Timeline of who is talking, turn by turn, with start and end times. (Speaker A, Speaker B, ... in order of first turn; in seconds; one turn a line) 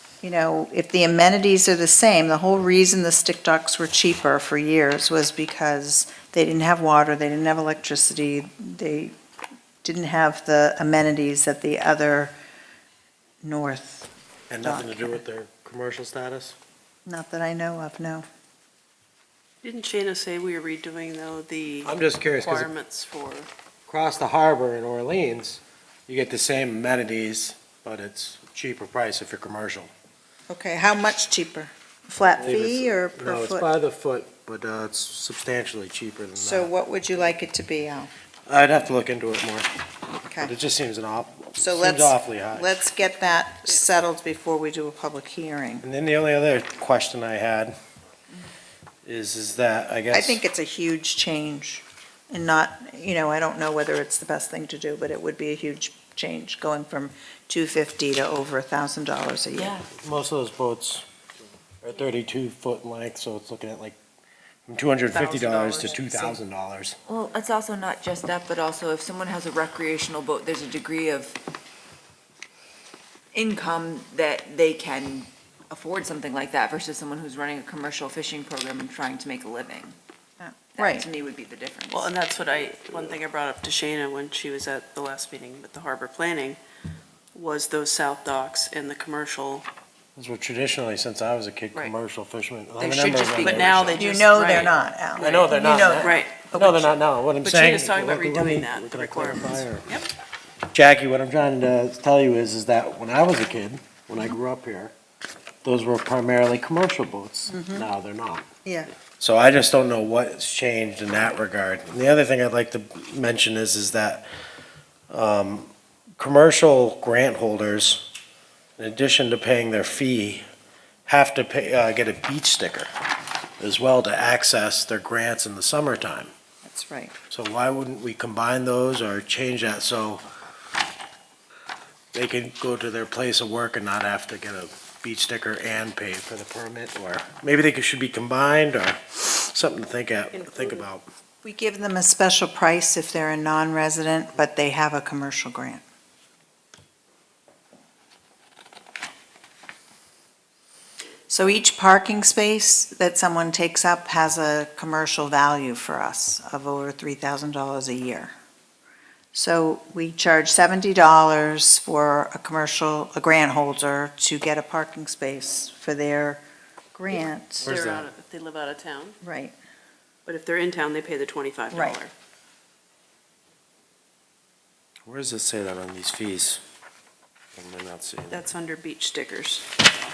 Speaker A: 0.2-9.2
Speaker A: 9.8-12.3
Speaker A: 13.4-14.1
Speaker B: 14.5-16.6
Speaker A: 14.6-15.2
Speaker A: 17.1-18.2
Speaker C: 19.6-23.5
Speaker B: 21.8-22.7
Speaker B: 23.9-29.9
Speaker A: 30.5-33.7
Speaker B: 32.4-36.7
Speaker A: 36.4-38.1
Speaker B: 38.5-39.7
Speaker A: 40.3-40.5
Speaker B: 40.5-42.7
Speaker A: 41.6-45.9
Speaker B: 45.8-47.8
Speaker B: 49.1-50.4
Speaker A: 50.1-59.8
Speaker D: 59.5-59.9
Speaker B: 60.0-61.0
Speaker B: 61.8-64.0
Speaker B: 64.7-67.0
Speaker C: 65.1-66.4
Speaker D: 67.1-71.4
Speaker D: 73.3-80.0
Speaker A: 80.4-81.1
Speaker D: 80.8-82.1
Speaker C: 81.9-86.6
Speaker C: 87.3-89.7
Speaker B: 90.2-94.1
Speaker D: 92.8-93.8
Speaker C: 93.4-96.5
Speaker A: 94.0-97.0
Speaker B: 95.2-99.9
Speaker C: 97.4-100.1
Speaker B: 100.7-104.9
Speaker B: 105.6-108.5
Speaker A: 107.5-107.9
Speaker A: 108.7-108.9
Speaker B: 109.2-114.3
Speaker B: 115.1-118.1
Speaker B: 118.8-120.5
Speaker B: 121.1-122.9
Speaker B: 123.6-126.3
Speaker A: 126.6-127.2
Speaker B: 127.3-130.2
Speaker B: 132.1-141.1
Speaker C: 140.3-140.9
Speaker A: 141.4-145.8
Speaker A: 151.3-158.3
Speaker A: 159.3-166.4
Speaker A: 166.9-167.7
Speaker C: 167.1-169.2
Speaker B: 167.6-168.1
Speaker A: 169.2-169.6
Speaker C: 170.3-172.1
Speaker A: 171.7-172.0
Speaker B: 175.1-176.6
Speaker B: 177.6-178.4
Speaker C: 178.3-179.7